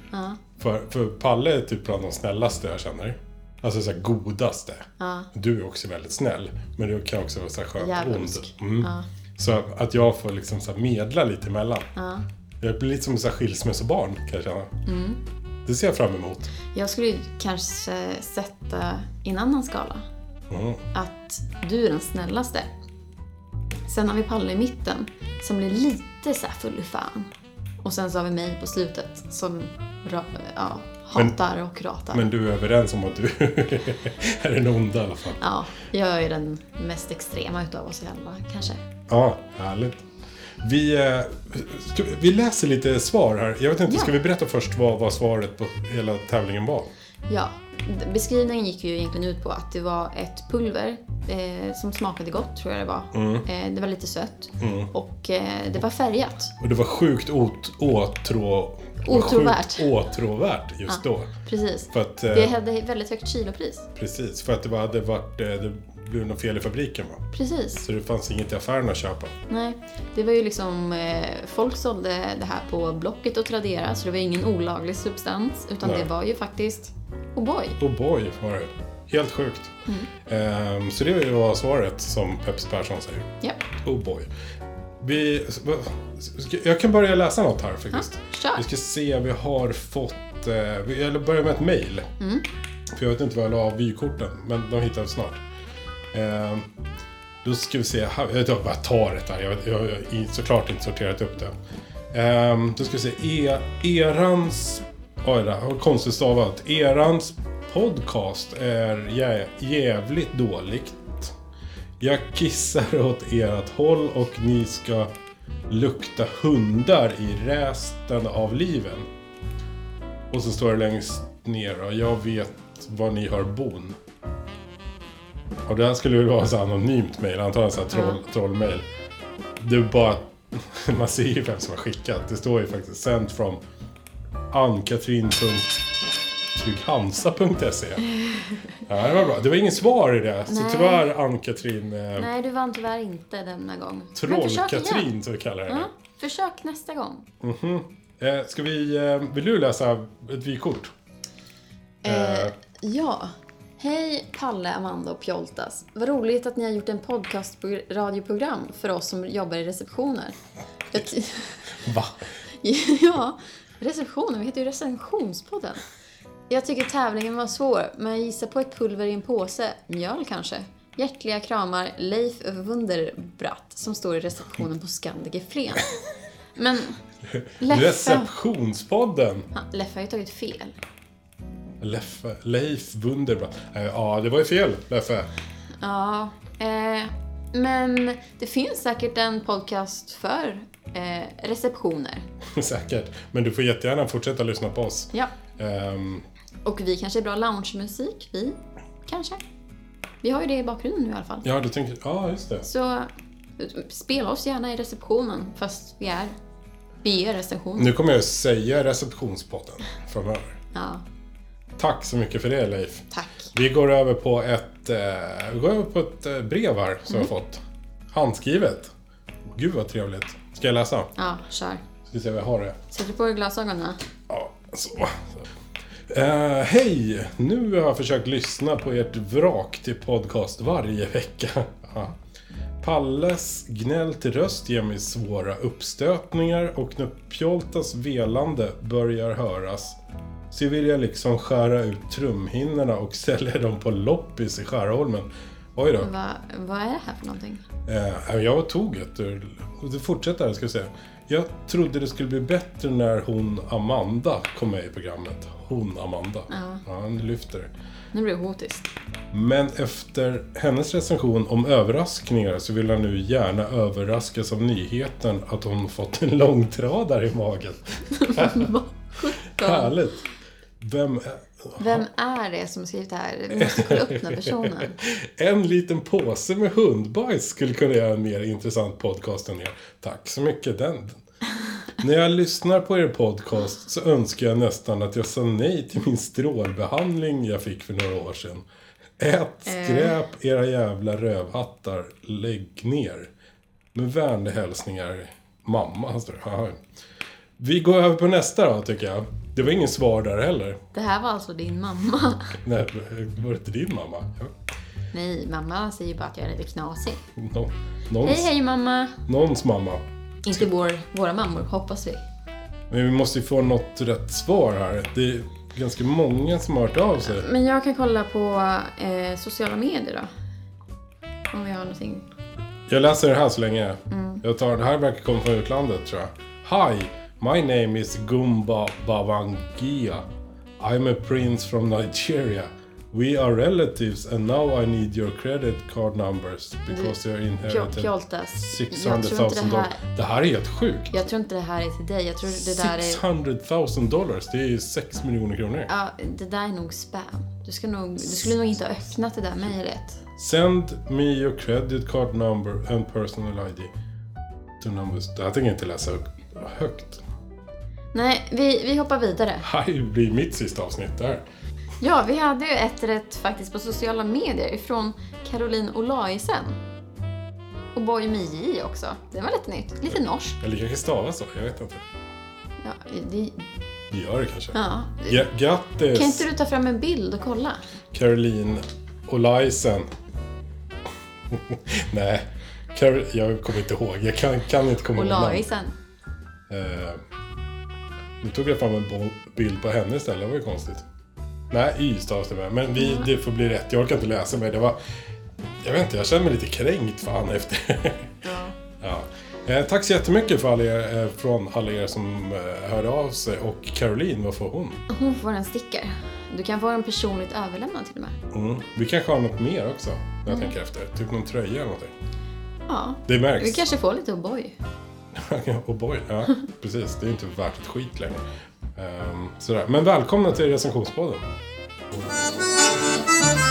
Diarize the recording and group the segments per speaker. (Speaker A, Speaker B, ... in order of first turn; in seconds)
Speaker A: 0.1-0.4, 5.0-5.3, 7.8-9.1, 12.0-12.2, 14.9-15.2, 16.7-20.1, 20.9-22.7, 23.9-27.3, 27.8-32.3, 35.4-38.8, 47.3-56.5, 59.0-59.9, 60.9-63.9, 67.3-67.8, 69.5-77.8, 87.9-88.6, 92.2-92.5, 127.9-128.2, 138.1-138.8, 140.5-141.1, 142.2-145.1, 145.7-147.3, 152.0-160.4, 160.9-161.7, 162.6-165.8, 166.5-175.9, 176.6-177.0, 177.6-178.3, 179.5-180.8, 185.8-192.3, 196.6-199.4, 200.2-201.5, 202.7-206.3, 207.0-207.9, 210.7-211.0, 213.1-213.5, 221.2-221.8, 222.9-224.0, 246.0-247.7, 256.5-256.8, 258.1-258.9, 268.1-270.0, 271.8-275.0, 289.7-290.2, 300.9-302.6, 305.1-307.2, 308.2-309.2, 310.4-312.2, 317.2-320.3, 321.5-322.3, 324.1-324.4, 336.9-340.0, 341.1-343.2, 345.9-350.2, 358.1-359.7, 362.0-366.8, 367.9-370.6, 372.8-373.7, 374.7-375.5, 376.1-377.8, 385.1-385.9, 393.0-393.3, 398.4-398.8, 405.1-408.4, 410.5-410.7, 412.9-414.8
Speaker B: 0.6-11.9, 12.6-14.7, 15.7-16.5, 20.5-20.8, 32.1-35.4, 39.1-40.0, 40.6-46.9, 53.1-53.5, 54.6-54.9, 56.6-61.3, 61.9-62.5, 64.0-67.3, 67.8-69.3, 75.8-76.1, 77.8-84.3, 85.0-92.1, 92.9-95.4, 96.1-96.7, 97.4-101.5, 102.1-111.3, 112.0-115.1, 115.7-119.1, 120.3-124.0, 125.7-128.8, 129.6-133.6, 134.5-135.8, 136.5-138.0, 138.9-142.3, 144.2-145.9, 147.4-150.9, 152.1-152.5, 161.7-162.2, 177.2-179.5, 181.8-185.3, 192.5-196.3, 201.4-202.7, 207.8-210.6, 211.8-218.9, 219.5-221.1, 222.1-222.8, 224.3-225.4, 226.1-232.2, 232.8-240.0, 240.5-246.1, 247.9-257.7, 259.3-268.7, 269.6-270.2, 270.8-272.1, 273.5-281.2, 282.0-288.7, 289.2-293.3, 293.9-296.8, 297.6-300.8, 302.6-304.6, 307.3-308.5, 309.3-310.7, 312.9-317.5, 322.9-330.3, 330.8-341.1, 342.5-345.9, 348.2-348.7, 350.4-353.9, 354.8-357.2, 359.6-361.4, 370.1-372.0, 374.1-376.5, 378.1-380.1, 381.5-385.7, 386.7-387.2, 388.4-391.1, 391.7-395.0, 395.8-398.4, 399.0-405.0, 408.5-412.2, 413.3-413.9, 415.3-418.4, 418.9-421.5